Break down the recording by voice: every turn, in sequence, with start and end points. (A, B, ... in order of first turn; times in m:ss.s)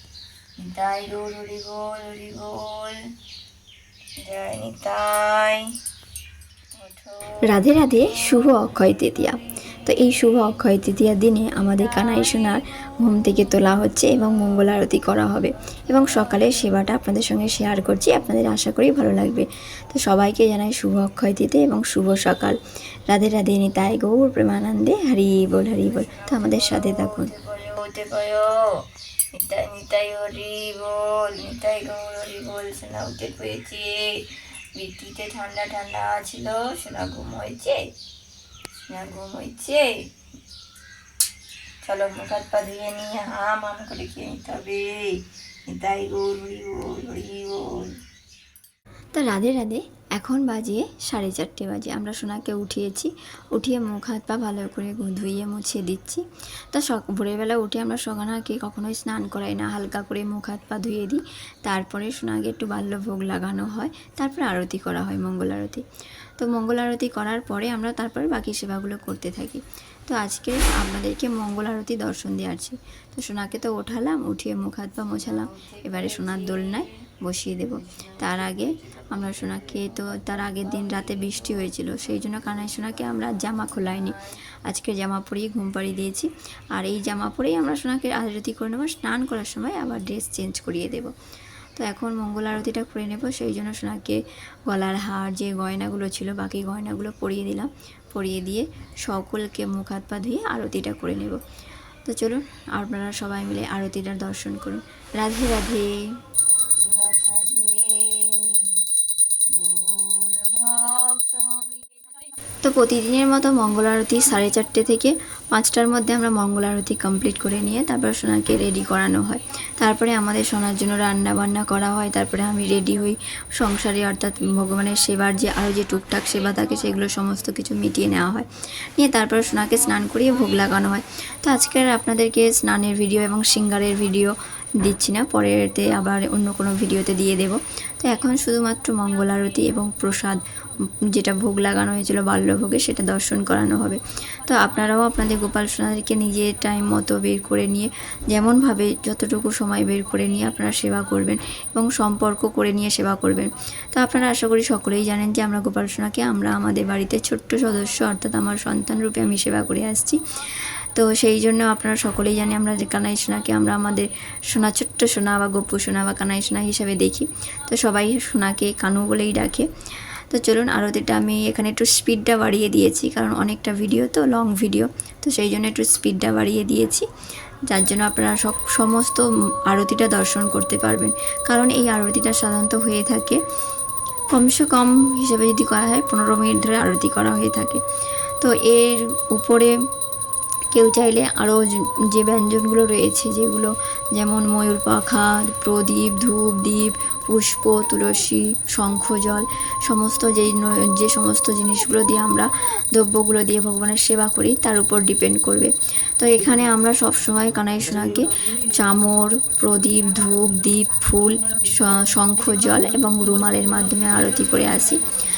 0:00.6-0:03.0 A
0:04.2-0:05.7 A
0:06.8-0:07.3 A
0:07.5-0:22.6 B
0:08.2-0:08.6 A
0:23.1-0:27.3 B
0:26.0-0:28.6 A
0:29.4-0:37.9 A
0:38.9-0:39.9 A
0:41.8-0:47.9 A
0:49.1-1:05.8 B
1:06.4-1:31.1 B
1:15.3-1:16.9 A
1:20.6-1:21.6 A
1:31.8-1:41.4 B
1:42.1-1:46.0 B
1:46.8-1:48.7 A
1:49.5-1:52.0 A
1:52.6-2:20.4 B
2:21.1-2:40.2 B
2:40.9-2:49.7 B
2:50.3-2:57.0 B
2:57.7-3:03.4 B
3:04.3-3:07.8 B
3:08.4-3:09.7 B
3:10.7-3:35.0 B